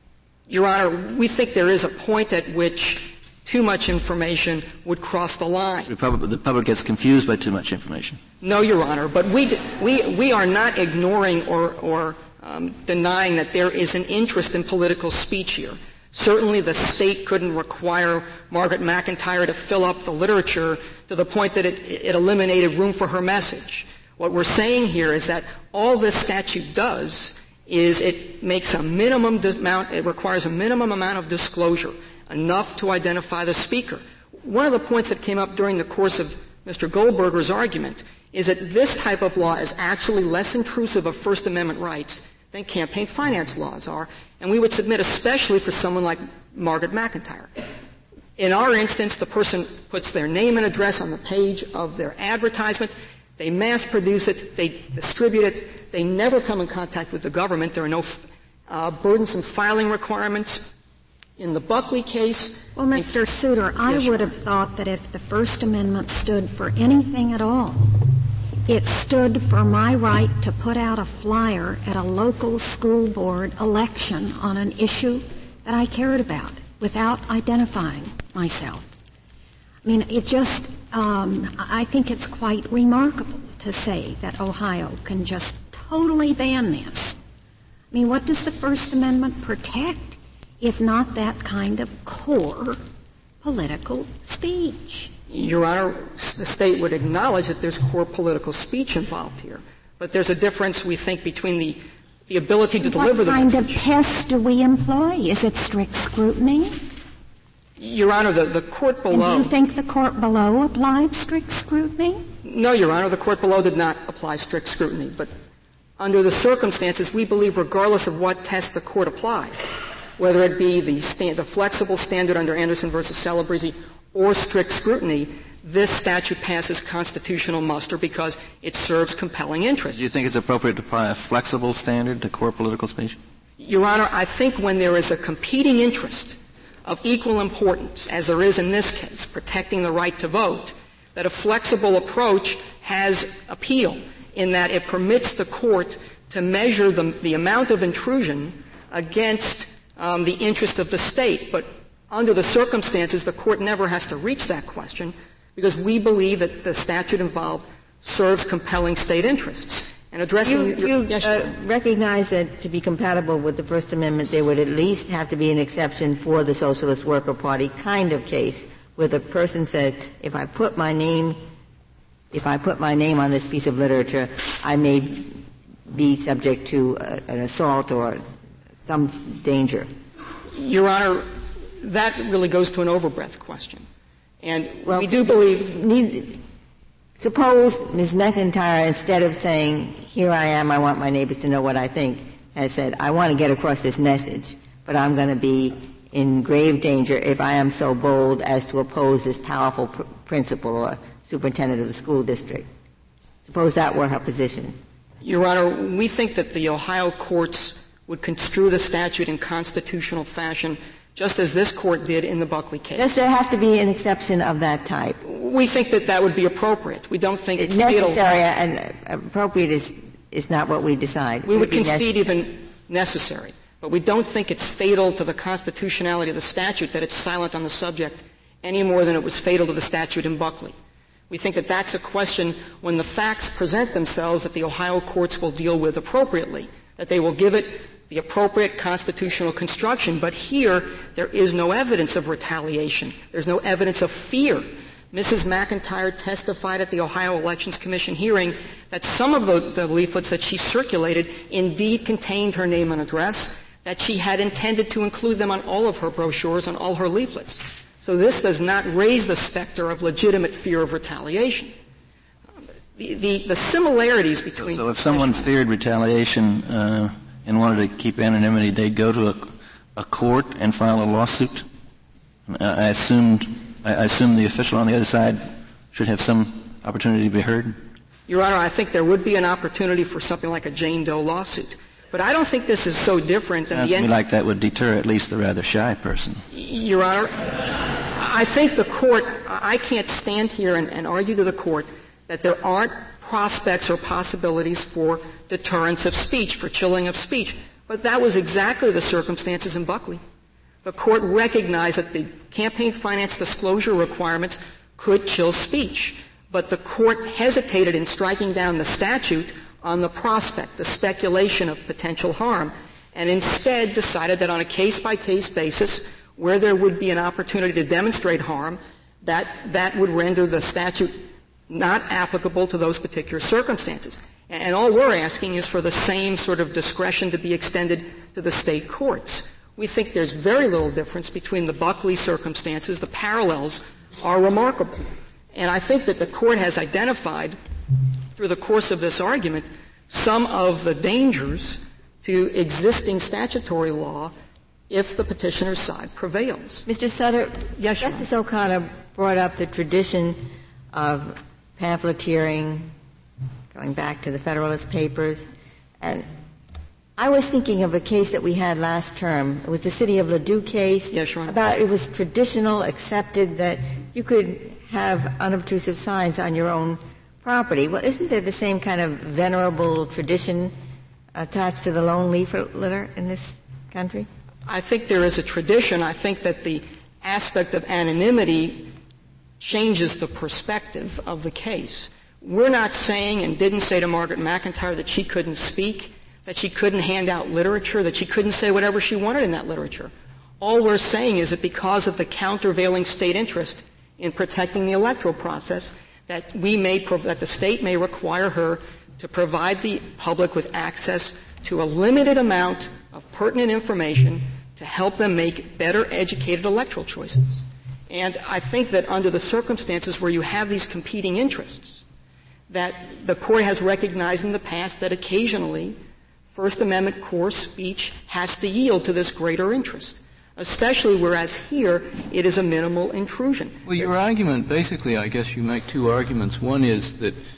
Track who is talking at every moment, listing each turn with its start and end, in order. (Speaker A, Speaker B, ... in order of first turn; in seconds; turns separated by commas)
Speaker A: 0.5-5.9, Speaker B: 5.9-8.2, Speaker A: 8.4-47.5, Speaker A: 48.4-60.7, Speaker A: 61.4-63.2, Speaker C: 62.7-68.0, Speaker A: 63.9-64.3, Speaker C: 68.7-78.9, Speaker C: 79.8-87.2, Speaker C: 87.9-92.8, Speaker C: 93.4-95.1, Speaker A: 95.3-103.8, Speaker C: 102.8-106.8, Speaker A: 107.8-109.5, Speaker C: 109.1-112.2, Speaker A: 112.4-115.3, Speaker A: 116.0-130.0, Speaker B: 129.9-133.2, Speaker A: 133.6-161.4, Speaker D: 160.4-171.4, Speaker D: 172.3-178.2, Speaker D: 178.8-179.9, Speaker A: 180.6-181.3, Speaker A: 181.8-183.8, Speaker A: 184.4-185.8, Speaker D: 184.8-186.4, Speaker D: 187.2-202.7, Speaker D: 203.4-204.8, Speaker A: 205.2-213.1, Speaker D: 212.9-215.2, Speaker A: 215.2-218.2, Speaker D: 217.6-222.1, Speaker A: 221.4-230.7, Speaker A: 231.3-261.7, Speaker A: 262.9-265.4, Speaker B: 264.6-271.6, Speaker B: 272.5-277.8, Speaker A: 278.3-284.1, Speaker B: 283.7-286.4, Speaker A: 286.5-287.6, Speaker A: 288.1-300.2, Speaker A: 300.8-337.6, Speaker A: 338.4-344.3, Speaker A: 344.9-346.8, Speaker D: 346.9-350.4, Speaker A: 347.8-348.3, Speaker D: 350.9-352.9, Speaker D: 353.7-355.5, Speaker D: 356.0-356.3, Speaker D: 357.2-370.7, Speaker A: 361.1-361.6, Speaker D: 371.3-374.3, Speaker A: 374.6-378.9, Speaker A: 379.6-412.0, Speaker A: 412.7-416.0, Speaker A: 416.5-423.8, Speaker E: 423.9-427.4